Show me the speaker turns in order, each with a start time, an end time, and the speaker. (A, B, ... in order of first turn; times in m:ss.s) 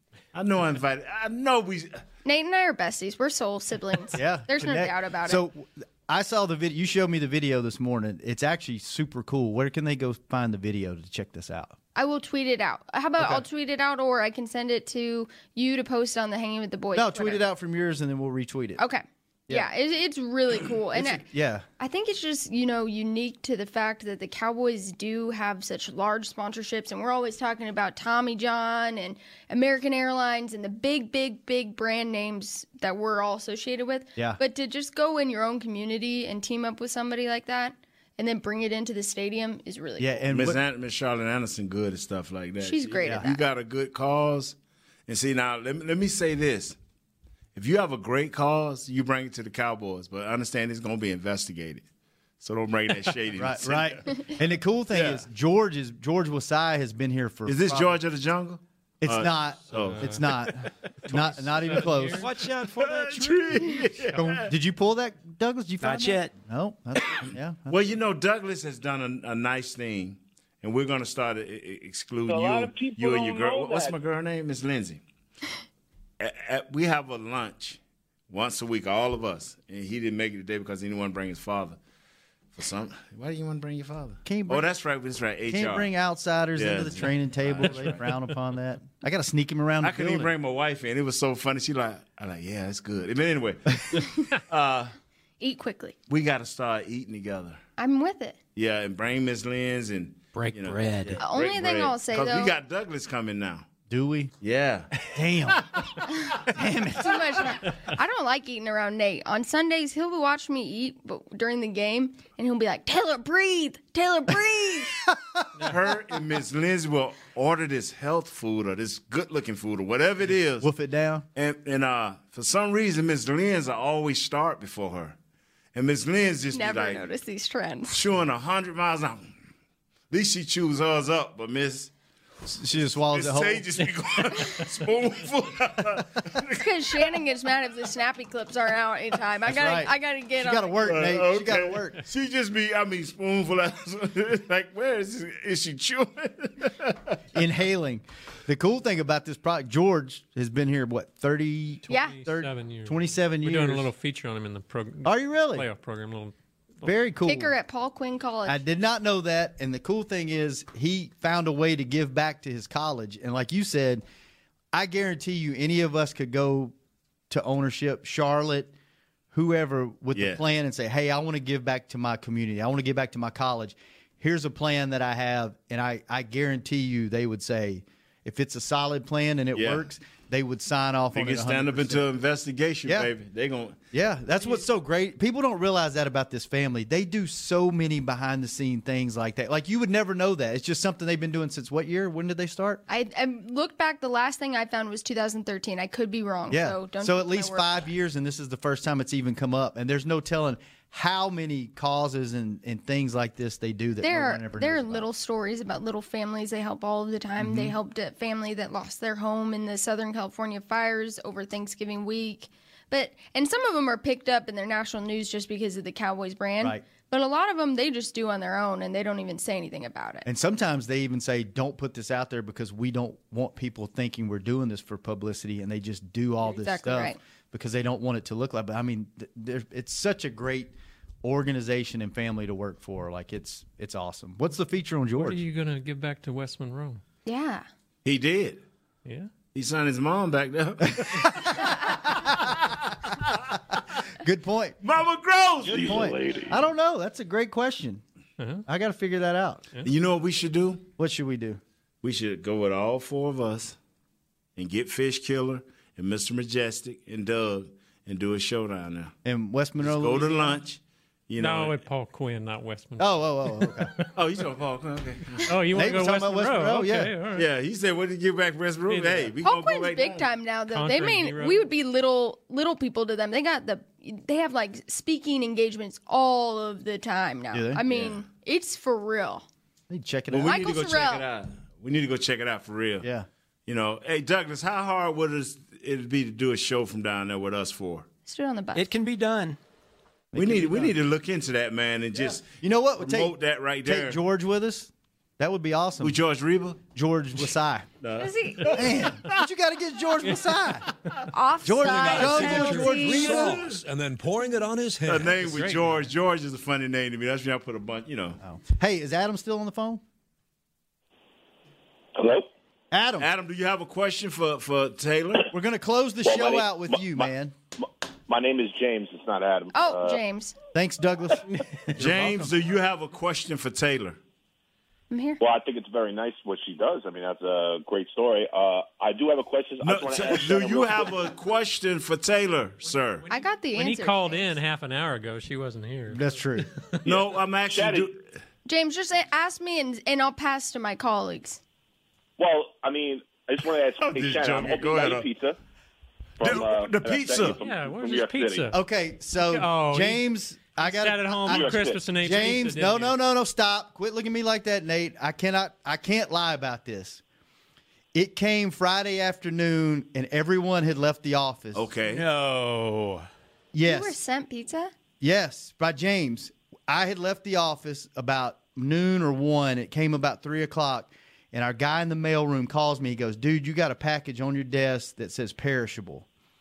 0:00.3-0:02.0 A
0:02.2-0:05.4 B
0:04.1-0:11.7 C
0:12.0-0:17.4 B
0:13.2-0:13.4 C
0:17.0-0:18.8 C
0:18.8-0:21.3 B
0:20.9-0:21.6 C
0:21.8-0:40.3 B
0:40.0-0:40.6 C
0:40.3-0:44.6 A
0:42.6-0:43.4 B
0:45.1-0:46.8 A
0:47.6-0:51.8 A
0:52.4-0:54.0 A
0:53.4-0:58.0 C
0:54.9-0:55.2 A
0:57.4-1:00.4 A
0:59.0-1:02.2 C
0:59.7-1:00.2 D
1:01.1-1:02.3 D
1:02.1-1:03.8 E
1:02.4-1:04.5 A
1:04.1-1:07.7 C
1:05.8-1:06.3 E
1:07.2-1:15.0 A
1:12.3-1:14.0 F
1:16.2-1:21.8 A
1:22.6-1:25.9 A
1:24.2-1:24.7 C
1:25.5-1:30.3 C
1:26.6-1:28.0 A
1:29.8-1:35.0 A
1:35.4-1:36.0 B
1:36.1-1:37.6 A
1:37.8-1:38.4 B
1:38.6-1:43.7 A
1:40.3-1:41.2 E
1:41.2-1:42.5 B
1:43.9-1:44.3 C
1:44.4-1:44.9 A
1:45.1-1:45.7 C
1:46.5-1:47.2 C
1:47.0-1:55.0 B
1:55.1-1:55.4 C
1:55.6-2:00.7 A
2:00.6-2:01.3 C
2:01.4-2:05.2 A
2:05.7-2:07.1 A
2:06.5-2:08.0 B
2:07.9-2:09.4 A
2:10.1-2:11.9 A
2:12.4-2:13.7 C
2:12.8-2:17.1 A
2:16.6-2:20.9 B
2:19.5-2:22.0 C
2:20.8-2:27.2 A
2:27.3-2:33.9 C
2:31.9-2:32.2 B
2:31.9-2:36.9 D
2:35.0-2:35.6 C
2:36.8-2:37.5 C
2:37.2-2:38.6 B
2:38.4-2:44.0 C
2:44.7-2:46.7 C
2:47.3-2:48.7 C
2:49.3-3:02.0 C
2:50.1-2:50.4 A
2:59.5-2:59.8 A
3:01.1-3:03.8 A
3:03.9-3:12.8 C
3:12.9-3:17.9 B
3:16.5-3:25.1 C
3:24.0-3:40.3 B
3:27.4-3:27.7 C
3:40.3-3:55.4 C
3:46.4-3:47.2 B
3:55.2-3:57.0 D
3:57.3-3:57.7 B
3:58.0-3:58.6 A
3:59.0-3:59.3 D
3:59.6-4:03.4 A
4:01.0-4:01.3 C
4:02.1-4:02.5 C
4:04.2-4:04.8 C
4:04.8-4:06.2 A
4:05.6-4:06.6 F
4:05.7-4:08.0 C
4:08.4-4:08.6 D
4:08.7-4:09.6 C
4:09.8-4:10.9 A
4:11.0-4:11.6 C
4:12.0-4:13.8 A
4:14.6-4:19.1 A
4:19.2-4:20.6 C
4:19.8-4:21.8 A
4:21.4-4:24.1 D
4:23.0-4:23.9 C
4:24.1-4:25.5 A
4:25.4-4:27.4 D
4:25.7-4:27.1 C
4:27.3-4:30.3 A
4:28.9-4:29.3 D
4:29.4-4:39.4 B
4:30.7-4:31.7 D
4:37.5-4:37.8 C
4:37.9-4:38.2 A
4:39.9-4:40.6 C
4:40.3-4:43.1 A
4:40.4-4:41.3 B
4:43.0-4:43.3 C
4:43.7-4:48.1 A
4:48.3-4:48.9 B
4:48.7-4:49.6 E
4:50.3-4:50.9 C
4:50.3-4:54.2 A
4:52.2-4:56.2 C
4:56.0-4:56.8 A
4:57.0-4:57.9 C
4:58.0-4:59.0 A
4:58.2-4:58.8 B
4:58.6-5:00.9 C
5:01.3-5:03.6 B
5:01.6-5:03.6 C
5:02.2-5:05.4 G
5:02.2-5:03.8 A
5:05.0-5:08.4 A
5:05.4-5:05.8 E
5:08.4-5:10.0 C
5:12.2-5:12.5 F
5:12.9-5:13.3 C
5:13.2-5:15.4 A
5:15.5-5:17.5 C
5:16.2-5:20.2 F
5:19.7-5:20.6 B
5:20.7-5:22.5 C
5:22.0-5:24.2 A
5:25.1-5:25.4 B
5:25.4-5:31.1 F
5:29.8-5:33.2 A
5:33.3-5:34.6 B
5:33.7-5:36.8 D
5:36.1-5:36.7 C
5:37.0-5:38.1 F
5:37.0-5:38.3 A
5:38.6-5:41.6 B
5:42.4-5:45.6 F
5:44.0-5:45.3 A
5:46.4-5:47.6 A
5:46.4-5:48.7 F
5:47.5-5:48.8 D
5:48.7-5:57.2 C
5:49.4-5:53.2 D
5:51.4-5:52.0 F
5:58.1-6:01.8 C
6:01.7-6:02.2 A
6:02.1-6:03.3 E
6:03.7-6:04.1 C
6:03.8-6:04.9 B
6:05.2-6:16.3 C